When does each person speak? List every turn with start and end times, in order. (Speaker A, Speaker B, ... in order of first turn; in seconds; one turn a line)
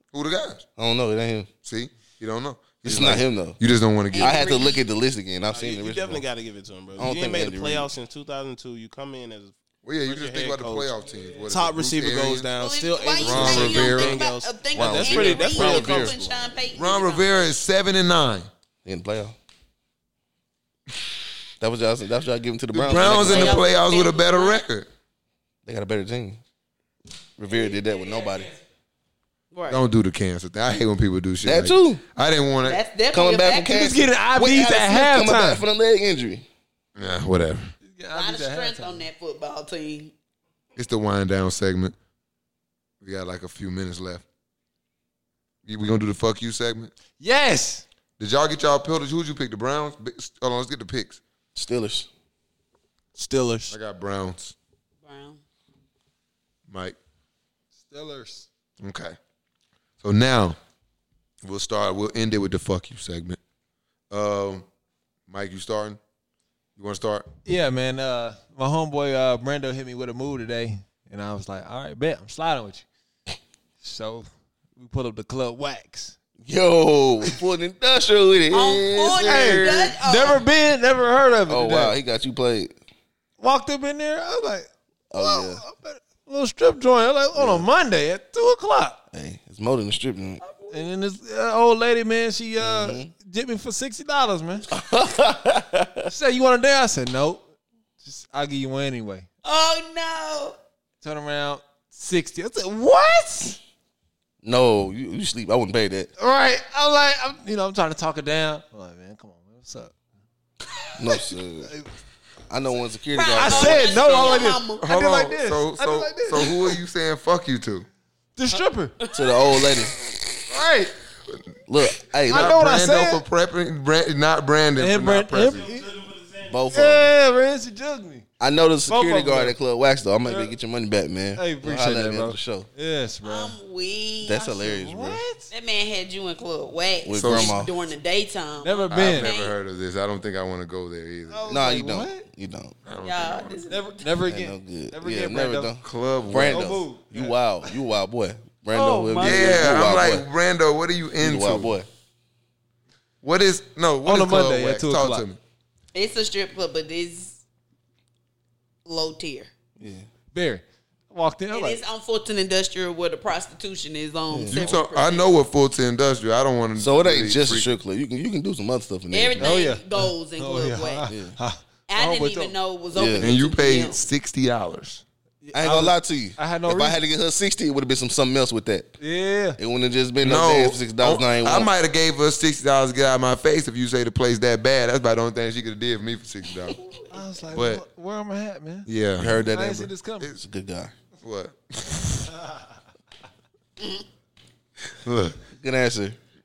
Speaker A: 0.1-0.6
Speaker B: 0.8-1.5
Speaker A: 1.6-4.6
Speaker B: 2.8-3.6
Speaker C: 4.1-4.8
Speaker B: 4.2-6.2
Speaker D: 5.5-16.5
Speaker B: 7.0-7.9
Speaker A: 9.8-12.5
Speaker C: 12.6-17.6
Speaker A: 13.2-14.2
Speaker B: 14.7-16.2
Speaker A: 16.7-18.5
Speaker B: 18.8-19.4
Speaker B: 21.6-23.7
Speaker A: 22.7-24.9
Speaker C: 22.9-24.6
Speaker B: 25.6-26.4
Speaker B: 27.4-28.5
Speaker C: 29.5-29.8
Speaker A: 29.7-32.8
Speaker B: 31.4-32.0
Speaker C: 32.6-33.9
Speaker B: 33.1-36.5
Speaker E: 33.6-35.6
Speaker A: 37.0-37.7
Speaker E: 37.8-39.0
Speaker C: 38.1-40.1
Speaker A: 40.8-41.9
Speaker A: 43.0-44.2
Speaker A: 45.6-46.9
Speaker E: 47.2-47.8
Speaker A: 48.2-51.2
Speaker B: 51.5-52.1
Speaker D: 53.1-53.7
Speaker A: 53.7-54.5
Speaker C: 55.0-55.4
Speaker A: 56.7-57.0
Speaker E: 57.8-58.5
Speaker A: 58.8-59.2
Speaker A: 60.0-60.6
Speaker A: 61.4-63.4
Speaker A: 64.1-64.6
Speaker A: 65.3-66.0
Speaker A: 66.8-67.3
Speaker E: 67.5-72.8
Speaker E: 73.8-76.1
Speaker B: 76.4-80.0
Speaker C: 78.5-80.4
Speaker E: 79.1-82.0
Speaker B: 81.5-82.8
Speaker E: 83.4-89.0
Speaker B: 85.1-85.6
Speaker B: 87.3-87.7
Speaker B: 89.1-90.4
Speaker C: 90.4-90.8
Speaker E: 90.7-94.7
Speaker B: 92.6-93.1
Speaker B: 94.7-96.1
Speaker E: 96.0-97.4
Speaker E: 98.0-99.3
Speaker C: 99.4-100.5
Speaker E: 101.0-103.6
Speaker B: 104.4-106.1
Speaker E: 106.2-109.9
Speaker B: 111.0-111.7
Speaker B: 112.5-114.3
Speaker C: 113.1-114.9
Speaker E: 113.4-116.8
Speaker A: 114.8-117.9
Speaker E: 118.3-119.0
Speaker C: 119.0-119.3
Speaker B: 119.1-119.9
Speaker E: 120.5-120.9
Speaker B: 121.7-122.6
Speaker A: 122.3-125.7
Speaker E: 122.3-123.2
Speaker E: 124.8-126.0
Speaker D: 125.6-126.5
Speaker B: 126.5-127.1
Speaker E: 126.7-128.2
Speaker B: 128.4-132.7
Speaker E: 128.8-129.6
Speaker E: 130.2-130.5
Speaker E: 131.3-133.6
Speaker C: 133.2-134.5
Speaker B: 134.2-135.2
Speaker E: 134.4-135.5
Speaker C: 135.5-139.5
Speaker B: 137.0-137.7
Speaker A: 137.2-137.5
Speaker E: 138.6-139.3
Speaker A: 138.9-141.5
Speaker E: 141.3-142.2
Speaker B: 141.5-142.8
Speaker A: 142.8-143.6
Speaker C: 143.0-144.1
Speaker E: 143.7-145.7
Speaker B: 144.2-150.3
Speaker A: 145.8-146.7
Speaker E: 146.3-147.4
Speaker C: 148.7-149.8
Speaker A: 149.2-151.8
Speaker B: 151.2-151.9
Speaker A: 153.2-155.4
Speaker E: 154.0-155.2
Speaker C: 155.9-157.4
Speaker C: 158.8-159.5
Speaker B: 159.8-160.1
Speaker E: 160.3-161.8
Speaker C: 161.5-165.4
Speaker B: 164.3-164.7
Speaker A: 164.5-167.7
Speaker B: 166.8-169.6
Speaker C: 169.1-171.1
Speaker E: 169.4-172.5
Speaker B: 171.1-171.4
Speaker C: 171.9-174.0
Speaker B: 172.9-173.3
Speaker A: 173.2-175.0
Speaker E: 175.4-177.0
Speaker B: 175.5-178.9
Speaker E: 179.0-179.6
Speaker B: 179.6-181.7
Speaker A: 180.2-186.8
Speaker C: 186.7-187.1
Speaker E: 187.1-190.3
Speaker A: 187.5-187.8
Speaker A: 188.9-189.4
Speaker B: 189.2-190.9
Speaker A: 191.2-192.3
Speaker A: 195.0-195.4
Speaker B: 195.5-196.2